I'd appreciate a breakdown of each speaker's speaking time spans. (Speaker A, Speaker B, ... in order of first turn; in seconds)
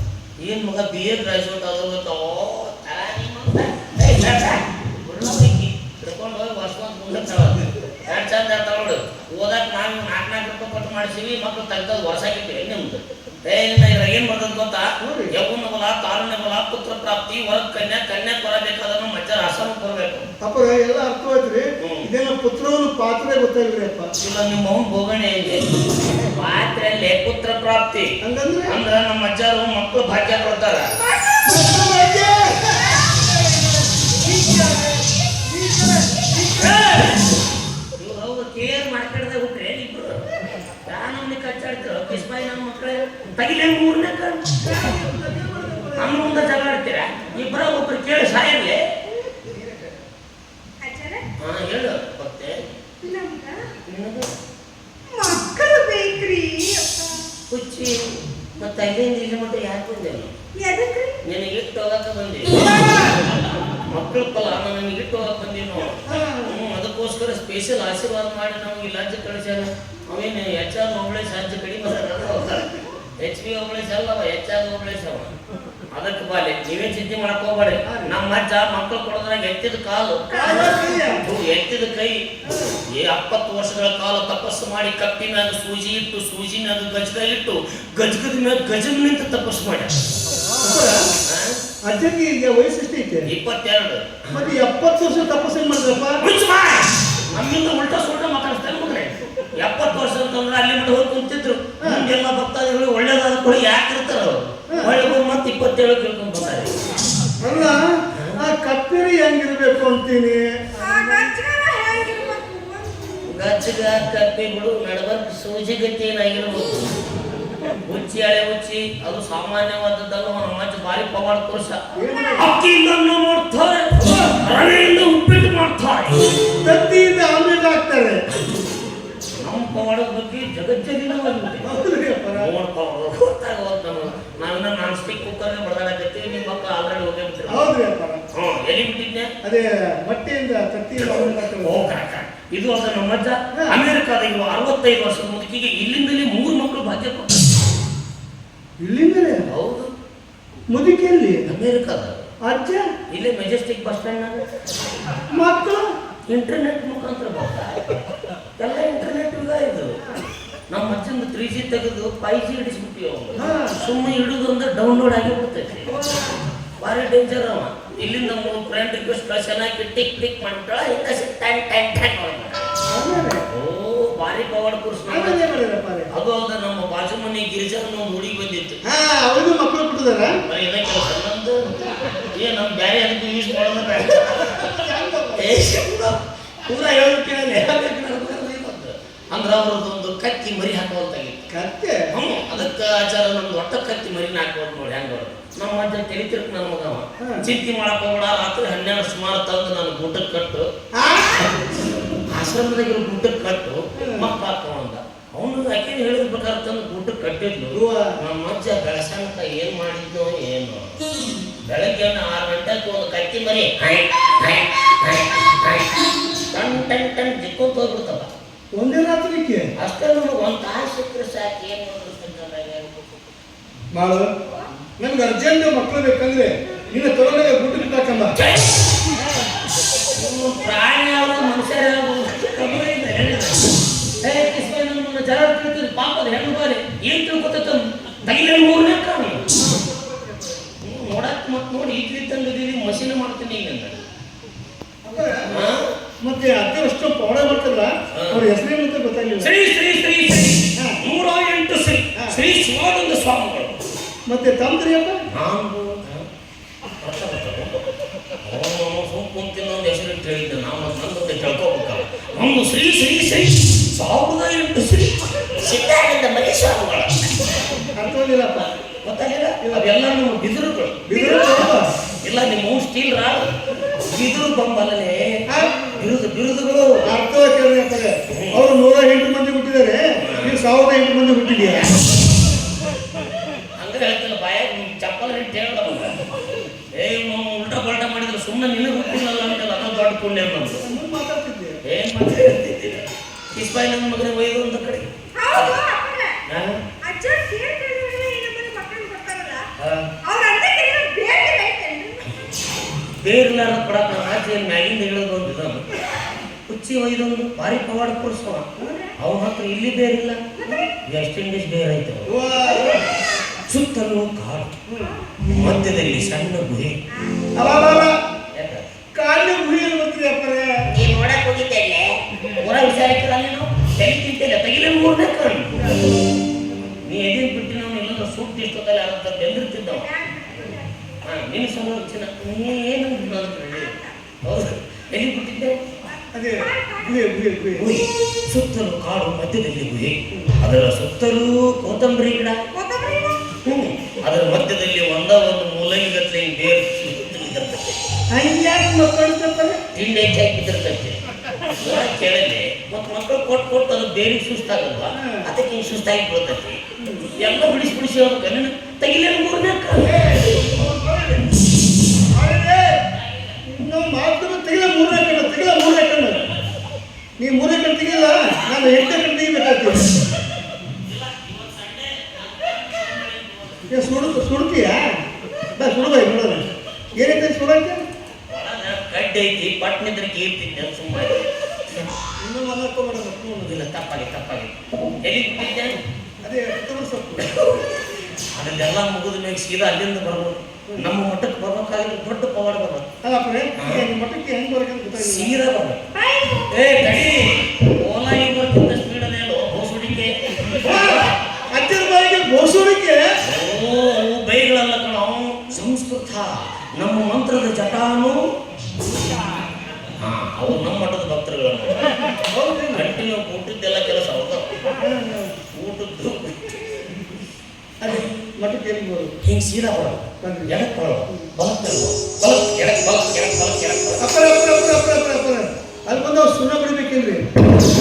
Speaker A: 0.4-20.2, 21.8-22.1, 24.2-28.1, 28.7-30.9, 38.0-40.2, 40.8-44.6, 46.0-48.8, 51.4-52.5, 53.9-54.3, 57.5-58.1, 58.6-60.3, 61.2-72.7, 73.2-75.3, 75.9-82.2, 83.0-89.9, 91.2-91.6, 93.3-94.5, 96.2-106.7, 108.1-108.4, 113.3-116.9, 117.6-121.8, 122.3-126.2, 129.4-131.7, 132.4-137.8, 138.3-139.3, 141.0-147.6, 149.5-149.9, 151.5-152.2, 153.1-154.4, 156.3-157.8, 158.6-160.0, 160.7-166.0, 166.8-172.7, 173.5-175.4, 176.1-178.8, 180.4-184.7, 185.4-191.5, 192.1-200.7, 202.3-210.9, 211.7-218.3, 219.8-222.9, 228.3-228.8, 230.1-233.6, 234.2-239.4, 240.8-244.0, 245.5-245.8, 248.1-248.4, 249.4-253.8, 255.3-256.2, 257.0-257.8, 258.4-267.1, 269.0-271.7, 272.2-273.5, 274.0-275.2, 275.9-277.1, 278.3-278.6, 280.2-280.6, 283.8-286.1, 286.9-290.8, 291.9-295.8, 296.4-296.8, 299.8-300.1, 303.2-305.8, 306.3-308.6, 309.2-310.4, 311.1-312.3, 313.7-314.8, 315.5-317.0, 318.5-318.8, 320.9-325.8, 327.1-330.1, 331.2-335.8, 337.8-342.6, 343.6-348.0, 349.9-351.1, 351.8-356.8, 357.4-360.6, 363.0-363.6, 368.5-369.2, 370.9-374.3, 378.5-381.4, 383.6-386.0, 387.4-393.0, 393.8-394.1, 395.2-396.0, 396.7-401.3, 403.4-408.4, 410.2-412.1, 412.9-414.7, 415.7-416.8, 419.4-424.2
Speaker B: 15.0-15.3, 20.4-24.1, 28.2-28.8, 31.4-37.2, 44.6-46.7, 49.4-50.0, 66.1-66.6, 77.8-78.1, 80.3-81.2, 82.5-82.8, 90.6-91.1, 91.9-93.3, 94.3-96.2, 101.8-102.1, 104.7-105.1, 107.4-110.4, 122.0-122.5, 124.0-124.3, 126.6-128.2, 131.6-132.5, 137.5-138.2, 139.4-141.9, 148.8-149.4, 150.7-151.4, 152.4-152.9, 155.3-155.8, 163.4-163.8, 172.9-173.4, 175.1-176.1, 178.8-180.4, 184.3-185.5, 191.5-192.0, 200.9-201.5, 204.0-204.3, 207.7-208.1, 218.7-219.6, 223.9-224.3, 225.0-228.3, 245.0-245.6, 246.2-249.5, 254.3-255.2, 267.9-268.7, 271.1-271.9, 275.5-275.9, 277.1-281.9, 290.8-291.8, 312.2-313.0, 314.9-315.1, 317.6-318.1, 319.1-320.7, 336.3-337.9, 348.3-349.8, 357.0-357.3, 360.0-361.5, 362.3-363.0, 363.7-366.4, 367.4-370.1, 373.9-375.0, 375.8-376.6, 377.1-378.0, 382.4-383.7, 386.4-387.5, 393.2-395.5, 400.7-403.2, 412.4-413.1, 415.0-415.5, 418.0-419.3, 420.4-420.7, 424.2-427.4
Speaker C: 31.0-31.6, 32.6-33.2, 50.8-51.3, 53.0-53.6, 55.1-57.0, 60.6-61.2, 80.3-80.8, 110.8-113.3, 295.4-296.4, 297.0-299.6, 300.2-302.3, 308.8-309.1, 310.6-310.9, 313.1-313.4, 315.0-315.4, 317.1-317.4, 329.9-331.2, 333.2-334.2, 336.0-337.3, 342.7-343.4, 396.1-396.7